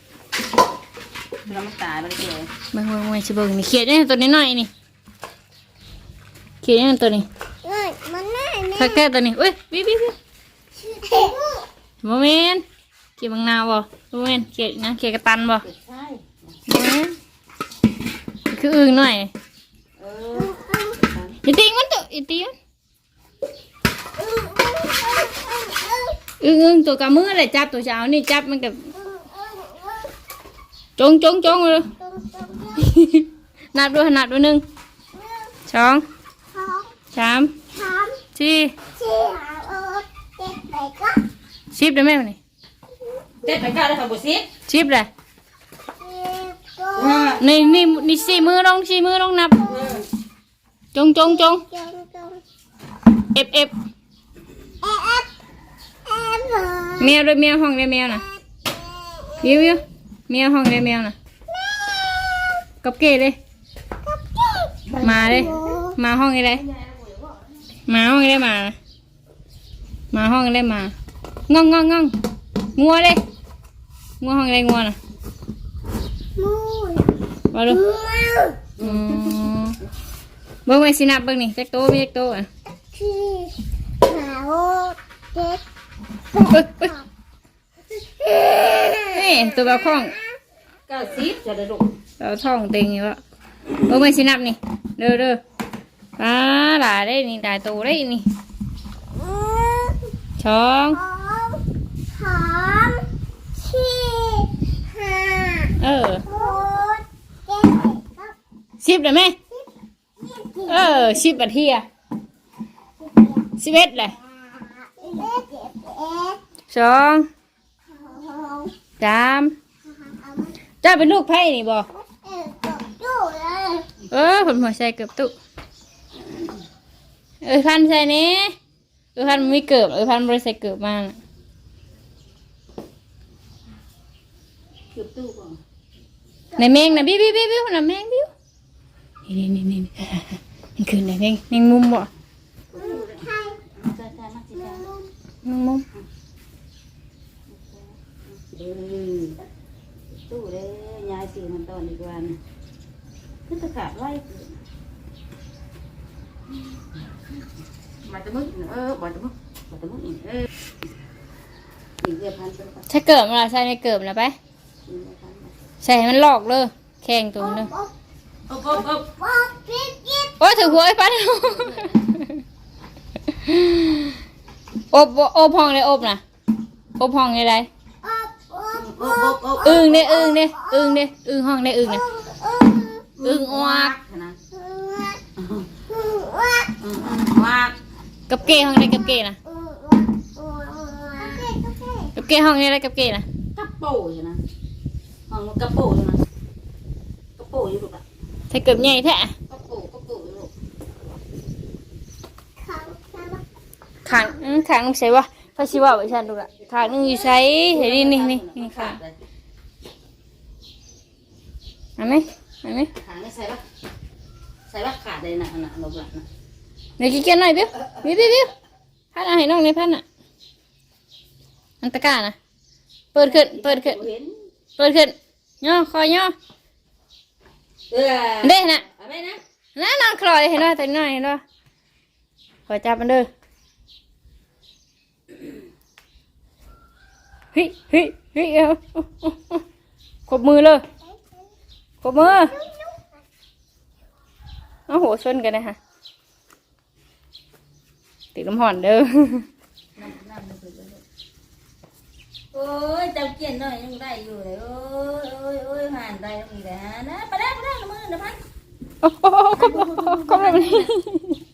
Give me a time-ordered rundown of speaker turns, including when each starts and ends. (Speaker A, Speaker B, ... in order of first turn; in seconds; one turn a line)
Speaker A: 1.5-2.5
Speaker B: 2.7-4.7
Speaker B: 6.6-7.3
Speaker C: 7.7-8.9
Speaker B: 8.7-10.2
Speaker C: 10.8-11.7
Speaker B: 12.0-12.6
Speaker B: 13.2-15.7
Speaker A: 15.6-16.5
Speaker B: 16.7-17.1
Speaker B: 18.5-19.3
Speaker A: 20.0-21.4
Speaker B: 21.4-22.6
Speaker C: 24.2-26.2
Speaker B: 26.4-28.9
Speaker C: 29.0-30.1
Speaker B: 31.0-31.9
Speaker C: 32.0-32.8
Speaker B: 32.8-34.6
Speaker B: 35.7-36.0
Speaker C: 36.5-36.9
Speaker B: 37.1-37.6
Speaker C: 37.8-38.2
Speaker B: 38.3-38.8
Speaker C: 39.0-41.2
Speaker B: 41.7-42.4
Speaker A: 43.4-44.5
Speaker B: 44.7-45.1
Speaker C: 46.0-47.1
Speaker A: 47.0-47.4
Speaker B: 47.4-49.9
Speaker A: 49.7-50.0
Speaker B: 50.9-51.7
Speaker C: 51.7-52.4
Speaker B: 53.3-53.7
Speaker C: 54.8-55.3
Speaker C: 56.1-57.0
Speaker B: 57.0-58.2
Speaker C: 58.8-59.4
Speaker B: 59.4-61.2
Speaker C: 61.5-62.6
Speaker B: 62.8-63.4
Speaker C: 64.0-65.9
Speaker A: 65.0-65.5
Speaker B: 65.0-66.7
Speaker A: 66.8-67.2
Speaker B: 67.9-68.8
Speaker B: 70.1-70.9
Speaker B: 71.5-72.2
Speaker B: 72.8-73.2
Speaker B: 74.2-75.0
Speaker C: 76.4-77.2
Speaker B: 77.5-77.8
Speaker C: 77.8-78.7
Speaker B: 78.8-79.8
Speaker A: 78.9-79.4
Speaker B: 80.7-82.5
Speaker C: 82.9-85.6
Speaker B: 86.3-87.0
Speaker C: 88.2-89.3
Speaker B: 89.0-90.2
Speaker A: 90.9-91.9
Speaker B: 92.2-93.2
Speaker B: 93.8-95.4
Speaker B: 96.2-98.3
Speaker C: 99.2-100.1
Speaker B: 100.4-101.0
Speaker C: 101.0-105.7
Speaker B: 105.8-106.3
Speaker C: 106.3-108.3
Speaker B: 108.8-109.4
Speaker C: 110.2-110.9
Speaker B: 110.7-111.8
Speaker B: 113.6-114.2
Speaker C: 114.8-116.4
Speaker B: 116.7-117.3
Speaker C: 117.9-118.7
Speaker B: 119.0-119.5
Speaker C: 120.1-120.5
Speaker B: 120.8-121.9
Speaker C: 122.2-123.9
Speaker B: 124.1-125.3
Speaker B: 127.4-128.6
Speaker B: 129.2-131.2
Speaker A: 134.9-135.6
Speaker B: 136.6-138.3
Speaker B: 139.3-142.1
Speaker A: 142.7-144.9
Speaker C: 143.3-143.6
Speaker B: 145.4-145.8
Speaker A: 147.5-149.4
Speaker A: 150.1-152.4
Speaker A: 153.5-154.6
Speaker A: 158.0-160.5
Speaker A: 162.0-162.9
Speaker B: 162.9-164.4
Speaker A: 164.9-165.5
Speaker B: 165.8-167.7
Speaker C: 167.6-167.9
Speaker A: 168.5-169.1
Speaker C: 169.2-170.3
Speaker B: 170.4-172.4
Speaker B: 173.3-174.2
Speaker B: 174.9-176.2
Speaker B: 177.0-177.7
Speaker C: 178.0-179.8
Speaker A: 178.7-180.0
Speaker B: 179.6-182.1
Speaker C: 182.1-183.1
Speaker A: 183.2-184.4
Speaker B: 183.2-183.9
Speaker C: 184.6-185.3
Speaker A: 185.4-185.7
Speaker C: 185.9-186.8
Speaker A: 186.8-187.8
Speaker B: 188.3-189.4
Speaker C: 189.5-192.1
Speaker B: 192.1-193.3
Speaker A: 193.6-194.4
Speaker A: 195.3-196.2
Speaker A: 197.4-198.0
Speaker B: 198.5-199.3
Speaker A: 199.5-200.5
Speaker C: 202.6-203.4
Speaker B: 204.0-209.0
Speaker A: 207.7-209.2
Speaker B: 212.0-212.9
Speaker A: 213.0-213.6
Speaker A: 214.7-216.3
Speaker B: 217.0-218.5
Speaker B: 219.1-220.0
Speaker B: 221.8-222.4
Speaker B: 223.1-224.0
Speaker A: 223.2-224.4
Speaker B: 224.8-226.3
Speaker A: 227.9-229.4
Speaker B: 228.4-228.8
Speaker B: 229.8-231.4
Speaker B: 232.7-233.3
Speaker B: 237.5-239.6
Speaker B: 240.3-240.8
Speaker B: 242.0-242.6
Speaker B: 244.9-245.8
Speaker B: 248.3-249.5
Speaker A: 250.0-251.0
Speaker A: 252.5-258.4
Speaker B: 259.0-261.4
Speaker A: 259.6-260.9